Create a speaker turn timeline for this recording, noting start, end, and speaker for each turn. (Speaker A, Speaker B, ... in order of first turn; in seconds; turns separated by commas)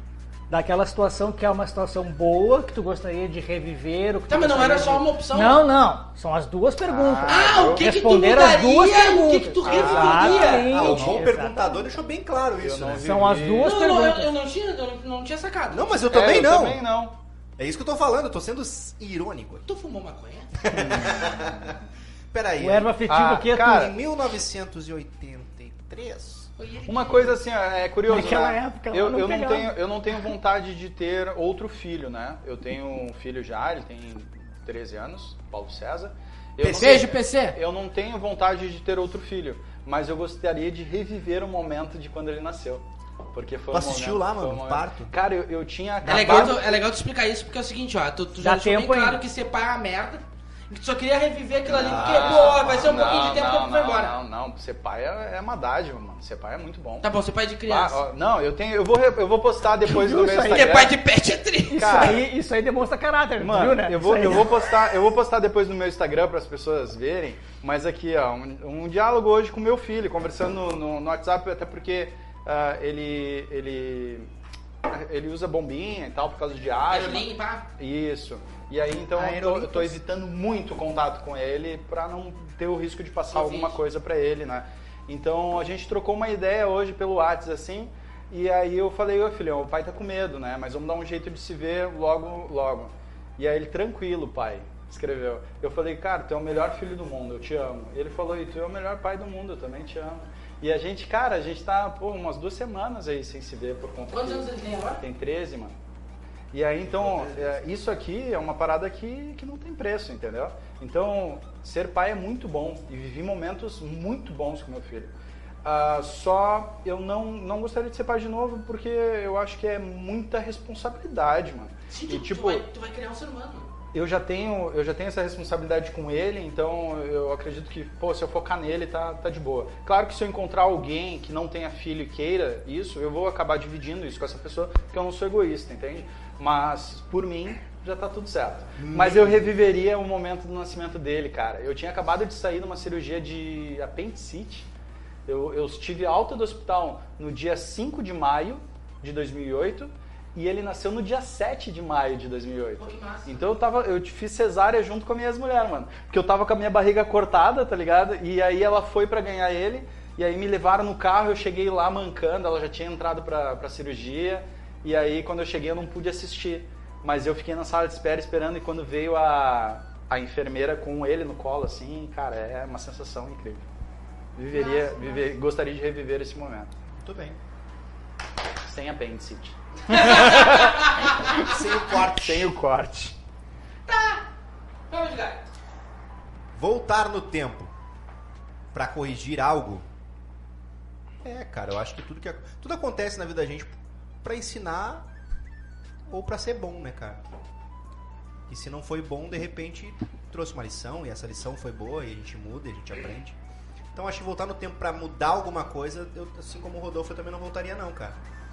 Speaker A: 0.5-11.9, Speaker B: 4.3-5.7, Speaker C: 6.8-7.9, Speaker B: 7.3-10.9, Speaker C: 9.6-11.2, Speaker D: 10.5-13.1, Speaker C: 12.6-13.8, Speaker A: 13.0-14.3, Speaker B: 13.6-16.1, Speaker D: 15.7-16.8, Speaker C: 16.1-17.2, Speaker D: 17.6-19.6, Speaker B: 19.6-20.6, Speaker D: 20.6-21.8, Speaker C: 20.7-21.8, Speaker D: 22.3-23.0, Speaker A: 22.6-23.9, Speaker C: 23.1-23.9, Speaker D: 23.6-26.5, Speaker B: 26.6-27.4, Speaker C: 26.9-46.8, Speaker A: 28.1-29.8, Speaker D: 36.6-37.1, Speaker B: 36.7-37.6, Speaker D: 43.7-45.1, Speaker D: 46.0-46.7, Speaker B: 46.0-54.1, Speaker A: 48.4-49.2, Speaker D: 51.6-53.5, Speaker C: 51.7-57.1, Speaker B: 57.0-58.0, Speaker C: 57.6-61.0, Speaker A: 59.9-60.7, Speaker B: 60.4-62.2, Speaker C: 61.7-62.3, Speaker A: 61.7-64.5, Speaker C: 63.4-74.3, Speaker C: 74.8-104.5, Speaker B: 76.9-77.7, Speaker D: 79.2-80.0, Speaker B: 83.3-83.8, Speaker B: 104.1-105.0, Speaker C: 105.0-105.8, Speaker C: 106.5-115.1, Speaker D: 106.8-107.6, Speaker C: 115.6-122.6, Speaker B: 121.9-123.7, Speaker C: 123.9-144.7, Speaker D: 138.8-139.5, Speaker C: 145.2-173.6, Speaker B: 152.8-153.3, Speaker C: 174.3-176.7, Speaker B: 174.5-175.3, Speaker D: 177.0-177.4, Speaker C: 178.6-183.2, Speaker B: 179.9-181.1, Speaker D: 181.3-182.5, Speaker B: 183.9-184.2, Speaker B: 184.9-185.4, Speaker D: 186.6-187.7, Speaker D: 188.7-189.8, Speaker D: 191.2-195.1, Speaker D: 196.1-197.2, Speaker D: 198.5-203.3, Speaker D: 203.9-208.2